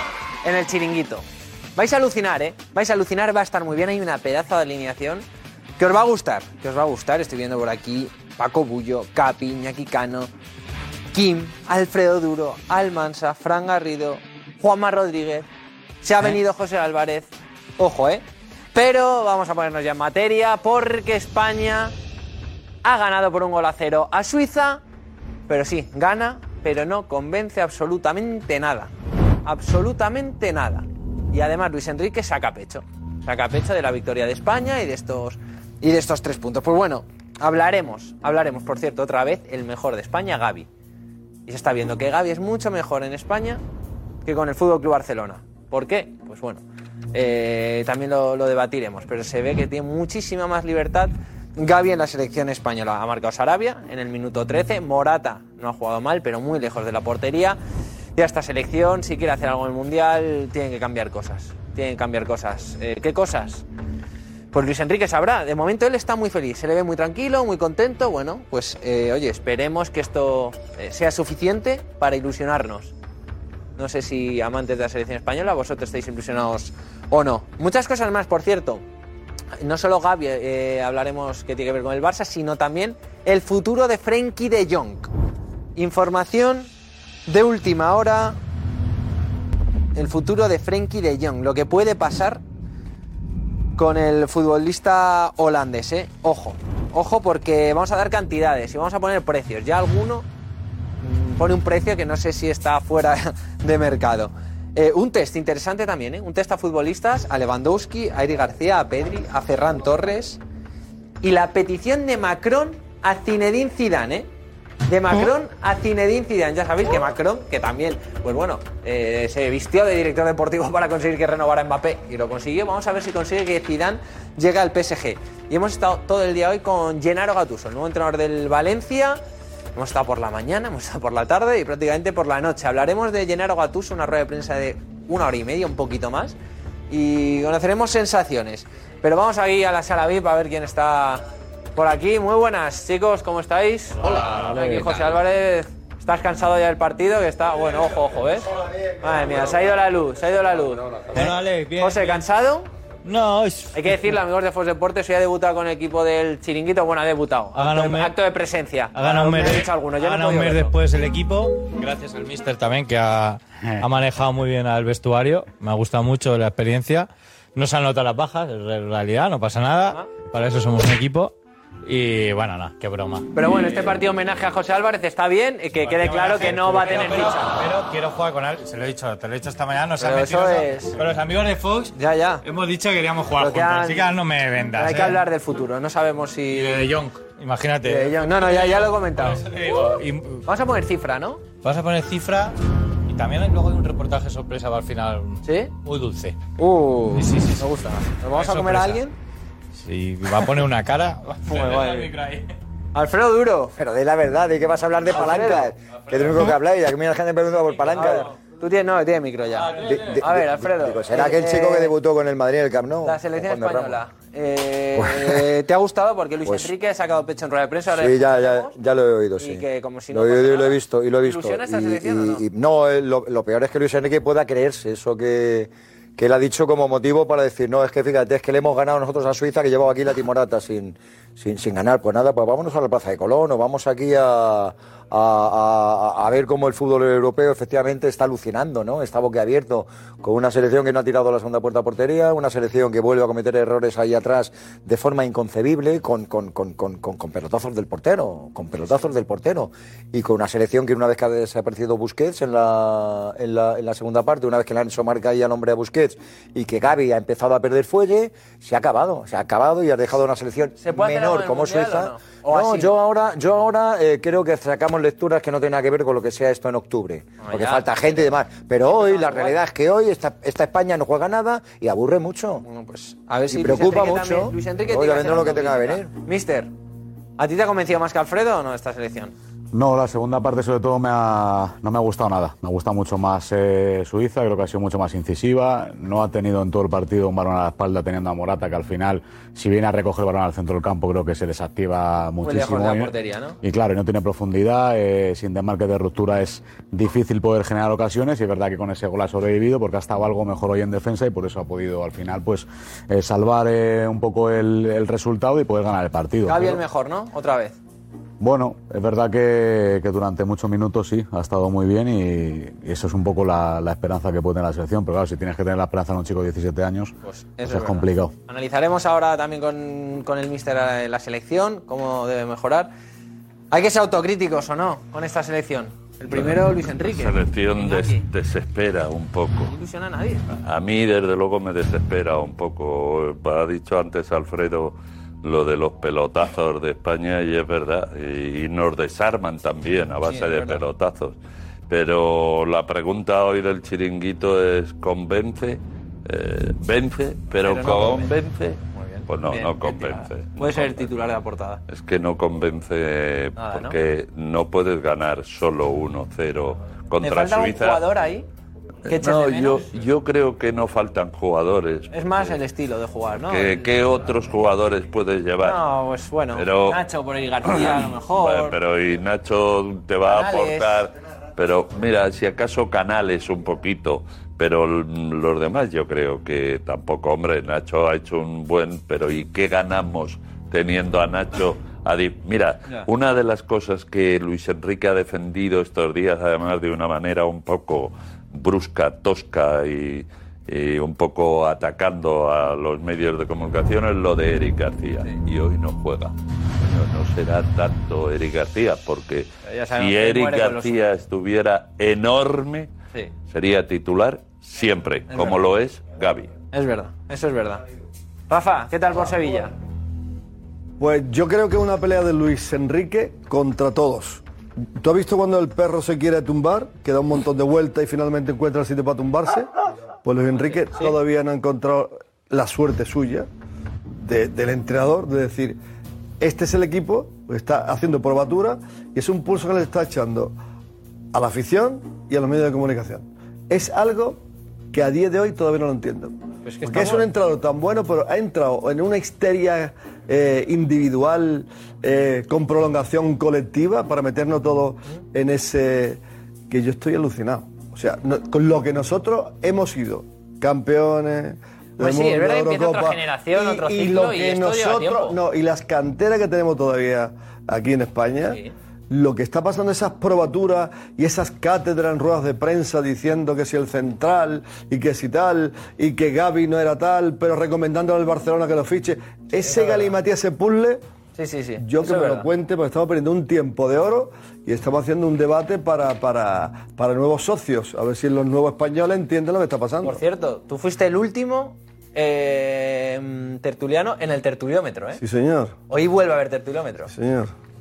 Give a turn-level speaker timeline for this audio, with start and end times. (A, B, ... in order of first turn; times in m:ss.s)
0:00.4-0:01.2 A
0:01.8-0:05.2 A
0:05.8-0:10.3 A
0:11.1-0:15.5 A
0:16.0-0:18.2 A
0:18.7-0:21.9 A
0:22.8-0:24.8 A
0:25.5-0:28.9 A
0:29.4-0:40.7 A
0:41.5-0:43.6 A
0:44.2-0:46.6 A
0:47.1-0:57.6 A
0:58.2-1:03.6 A
1:04.5-1:12.9 A
1:13.8-1:18.8 A
1:19.6-1:25.1 A
1:25.8-1:26.7 A
1:27.3-1:28.4 A
1:30.0-1:32.4 A
1:33.8-1:40.3 A
1:41.0-1:50.4 A
1:51.2-1:54.3 A
1:54.9-2:09.2 A
2:09.8-2:16.4 A
2:16.9-2:21.2 A
2:21.8-2:32.7 A
2:24.2-2:25.1 B
2:31.1-2:32.2 B
2:33.0-2:33.8 B
2:33.7-2:40.7 A
2:37.5-2:38.2 B
2:38.9-2:51.3 B
2:51.8-2:53.3 B
2:53.4-2:57.6 A
2:55.8-3:05.2 B
3:00.0-3:01.0 A
3:02.0-3:02.4 A
3:03.4-3:04.1 A
3:04.8-3:06.8 A
3:06.5-3:10.4 B
3:07.8-3:09.4 A
3:10.5-3:11.4 A
3:11.6-3:12.6 B
3:13.1-3:16.4 B
3:15.4-3:15.7 A
3:16.6-3:19.2 A
3:17.1-3:19.0 B
3:19.8-3:22.5 B
3:21.5-3:22.1 A
3:22.9-3:23.8 A
3:23.8-3:28.3 C
3:25.1-3:25.7 A
3:27.9-3:32.0 A
3:29.6-3:30.2 B
3:29.9-3:34.0 C
3:33.0-3:38.8 A
3:35.0-3:35.4 C
3:37.9-4:32.6 C
3:39.4-3:42.4 A
4:20.8-4:22.9 A
4:27.4-4:29.6 A
4:32.6-4:36.7 A
4:33.5-4:36.1 C
4:37.4-4:39.3 A
4:39.7-5:06.8 D
4:52.4-4:53.6 A
5:06.5-5:07.8 A
5:08.4-5:18.3 D
5:17.2-5:22.9 A
5:23.7-5:28.2 A
5:26.3-5:29.7 E
5:29.6-5:30.4 A
5:30.5-5:41.4 E
5:40.3-5:40.8 A
5:41.9-5:51.1 E
5:47.6-5:48.3 A
5:48.9-5:51.8 A
5:51.9-5:58.0 E
5:53.6-5:54.0 A
5:57.2-5:58.5 A
5:59.1-6:02.6 E
5:59.1-5:59.9 A
6:02.1-6:03.9 A
6:03.5-6:05.8 E
6:05.6-6:08.8 A
6:06.5-6:07.0 E
6:07.7-6:42.9 E
6:10.3-6:11.1 A
6:39.6-6:41.0 A
6:43.5-6:46.5 E
6:45.3-6:45.6 A
6:46.7-6:47.8 A
6:48.5-6:49.7 A
6:51.0-6:54.4 F
6:55.0-6:59.7 F
7:00.2-7:03.5 F
7:04.2-7:05.8 F
7:06.4-7:10.6 F
7:11.3-7:14.4 F
7:14.9-7:51.0 F
7:16.6-7:17.2 A
7:32.0-7:35.4 A
7:49.6-7:50.2 A
7:51.4-7:52.5 A
7:51.8-8:00.2 F
8:00.0-8:05.2 A
8:05.2-8:05.8 F
8:05.9-8:07.1 A
8:07.1-8:07.5 F